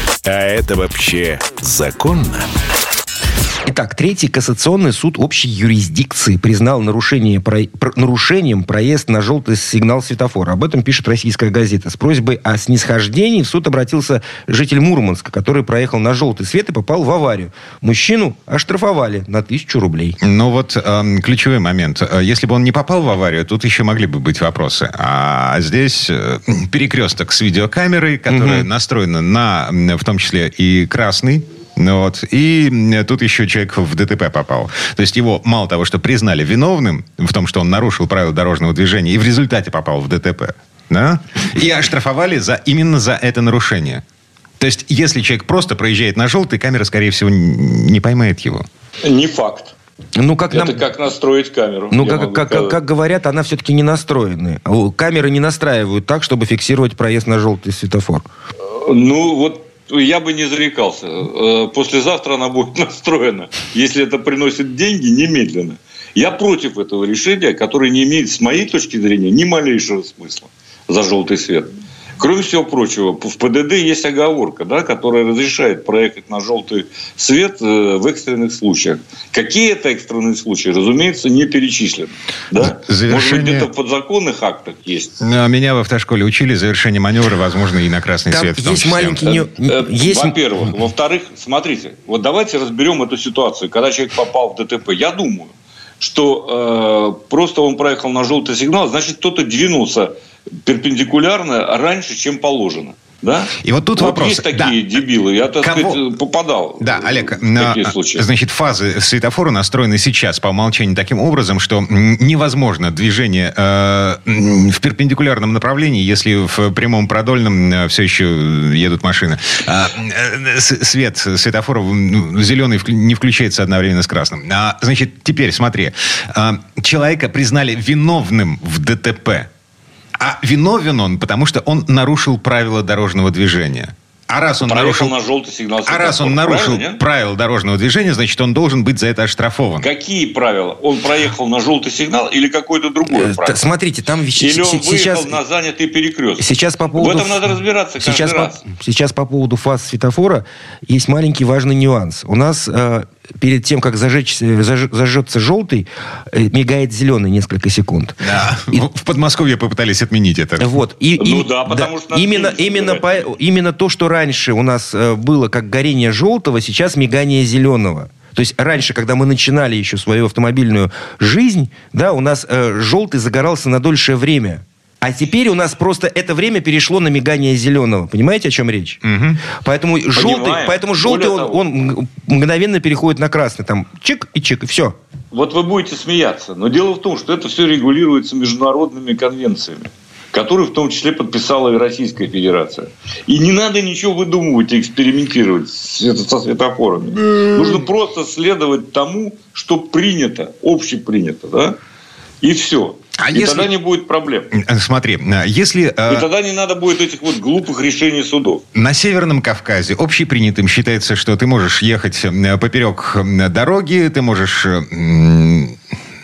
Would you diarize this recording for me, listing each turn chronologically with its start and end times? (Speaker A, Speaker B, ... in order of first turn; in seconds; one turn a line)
Speaker A: 0.3-2.5
Speaker B: 3.7-20.2
Speaker C: 20.2-44.0
Speaker B: 28.3-28.7
Speaker C: 44.6-48.7
Speaker D: 49.0-49.7
Speaker B: 50.2-50.8
Speaker D: 50.5-52.8
Speaker B: 51.9-58.3
Speaker D: 58.7-85.2
Speaker C: 82.6-83.7
Speaker C: 85.2-89.3
Speaker B: 88.3-90.4
Speaker D: 89.2-100.1
Speaker D: 100.7-108.2
Speaker C: 103.6-104.8
Speaker C: 105.6-106.0
Speaker C: 106.8-129.5
Speaker C: 130.2-135.1
Speaker D: 134.6-137.0
Speaker C: 135.9-139.9
Speaker D: 139.8-143.6
Speaker B: 143.1-145.4
Speaker D: 144.4-146.4
Speaker B: 146.4-147.4
Speaker D: 147.0-148.6
Speaker B: 148.0-158.2
Speaker C: 158.2-160.7
Speaker B: 160.6-179.0
Speaker D: 161.2-163.3
Speaker C: 179.0-179.4
Speaker B: 179.5-185.0
Speaker D: 180.1-181.6
Speaker D: 185.3-201.8
Speaker D: 202.4-204.5
Speaker C: 203.2-203.7
Speaker C: 204.5-206.3
Speaker D: 206.1-208.6
Speaker C: 208.8-215.8